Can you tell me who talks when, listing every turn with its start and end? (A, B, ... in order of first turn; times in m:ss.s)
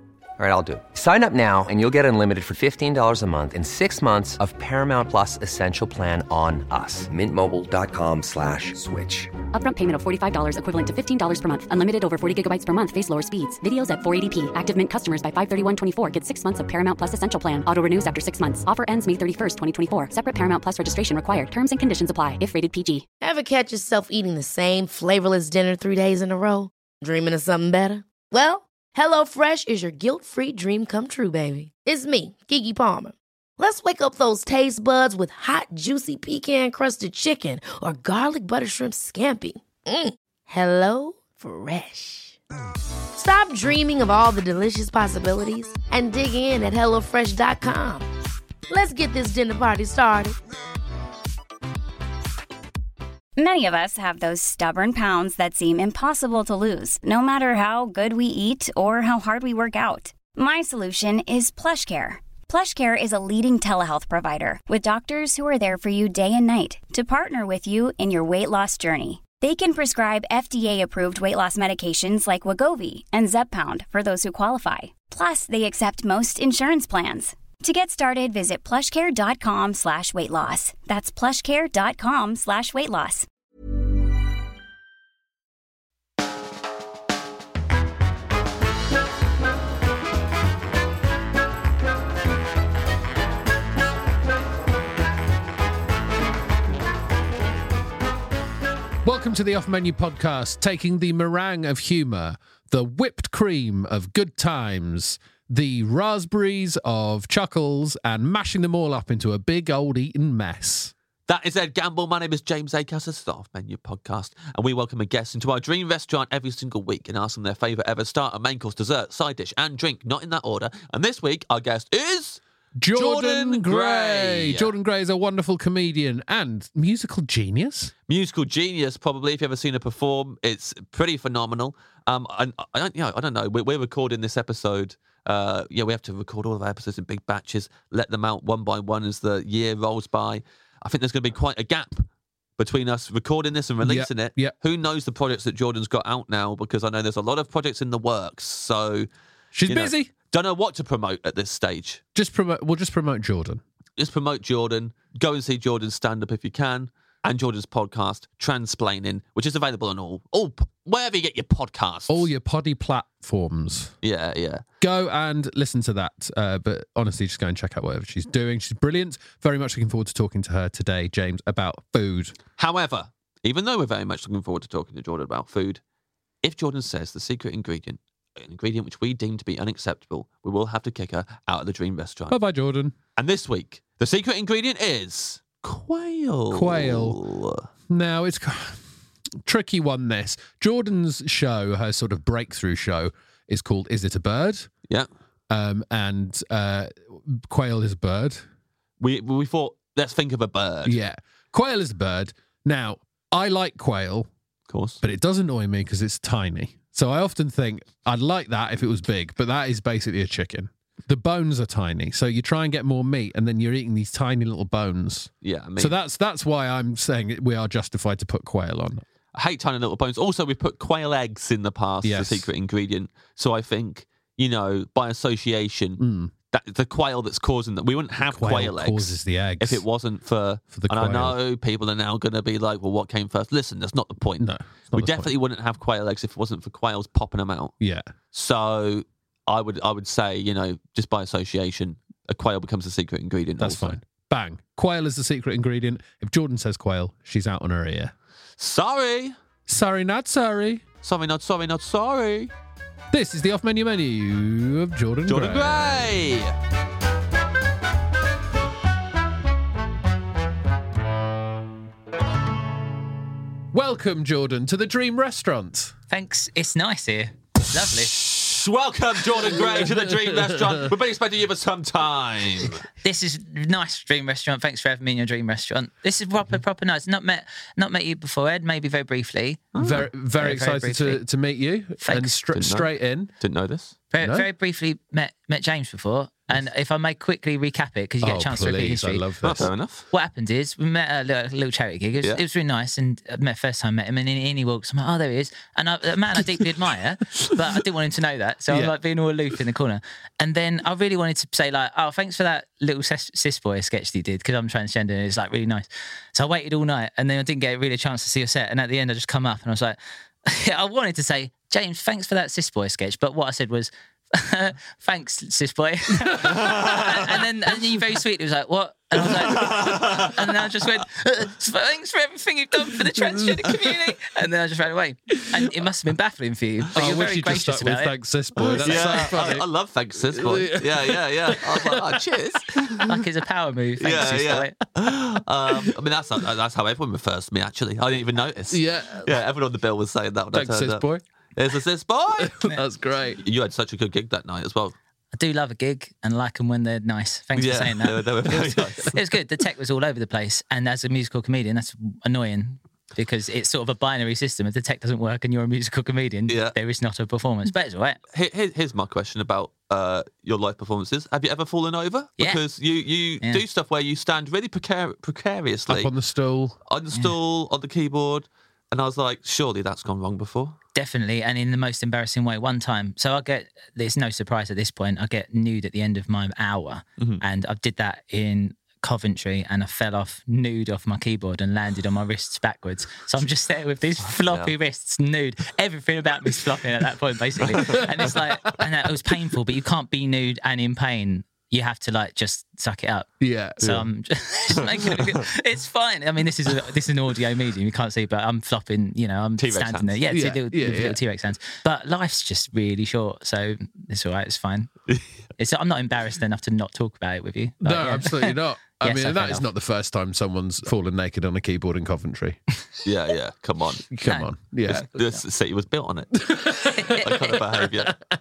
0:00.4-0:09.3 A
0:09.5-0:23.0 B
0:23.2-0:42.4 C
0:43.1-0:48.0 C
0:48.7-0:50.4 C
0:53.4-1:23.3 D
1:39.0-1:50.9 E
1:51.3-2:02.4 F
2:02.8-2:07.9 E
2:02.9-2:04.7 F
2:08.1-2:22.1 F
2:22.6-2:29.1 F
2:23.8-2:24.5 E
2:29.5-2:30.1 E
2:29.7-2:32.0 F
2:32.1-2:33.6 E
2:34.0-2:42.3 F
2:42.1-2:43.9 E
2:44.0-2:44.6 F
2:44.8-2:52.3 E
2:52.6-2:55.8 F
2:56.4-3:02.4 F
3:02.3-3:02.9 E
3:03.2-3:07.7 F
3:06.5-3:07.2 E
3:07.9-3:08.8 E
3:09.4-3:14.7 E
3:15.5-3:18.4 E
3:19.0-3:21.0 F
3:20.8-3:24.3 E
3:24.7-3:25.0 F
3:25.0-3:39.0 E
3:35.4-3:36.0 F
3:39.3-3:46.0 F
3:42.0-3:42.5 E
3:46.0-3:46.3 E
3:46.5-3:57.7 F
3:48.2-3:49.8 E
3:50.7-3:51.4 E
3:54.4-3:55.3 E
3:57.8-3:58.1 E
3:58.3-4:04.0 F
4:03.6-4:08.1 E
4:08.6-4:09.3 F
4:09.7-4:10.8 E
4:11.0-4:12.5 F
4:13.1-4:16.1 E
4:15.3-4:16.5 F
4:23.7-4:25.9 E
4:26.1-4:28.1 G
4:27.9-4:32.8 F
4:33.0-4:39.6 G
4:39.7-4:40.1 F
4:39.8-4:43.3 E
4:40.3-4:41.2 G
4:42.0-4:42.4 G
4:42.5-4:44.0 F
4:44.1-4:49.3 G
4:44.2-4:44.5 E
4:48.2-4:49.7 E
4:49.4-4:50.1 F
4:50.1-5:28.2 G
4:58.7-4:58.9 E
5:16.4-5:17.1 F
5:19.2-5:20.5 F
5:23.1-5:23.7 E
5:26.9-5:29.7 E
5:28.7-5:29.3 G
5:28.8-5:33.1 F
5:30.3-5:32.2 E
5:33.0-5:34.7 G
5:34.0-5:42.6 F
5:38.7-5:39.4 E
5:40.5-5:41.2 E
5:42.4-5:43.4 E
5:43.4-5:44.9 F
5:45.3-5:58.2 G
5:47.6-5:49.1 F
5:56.5-5:56.8 F
5:58.3-6:06.1 F
6:05.9-6:06.8 E
6:06.9-6:10.8 F
6:10.9-6:44.9 G
6:24.2-6:24.7 F
6:33.4-6:34.1 E
6:39.6-6:40.2 F
6:40.3-6:41.2 E
6:45.6-6:49.7 G
6:47.8-6:52.6 E
6:53.0-6:54.0 F
6:54.1-6:55.1 E
6:54.2-6:55.4 G
6:54.9-6:56.5 F
6:56.5-6:57.1 E
6:56.9-6:57.5 G
6:57.1-6:58.1 F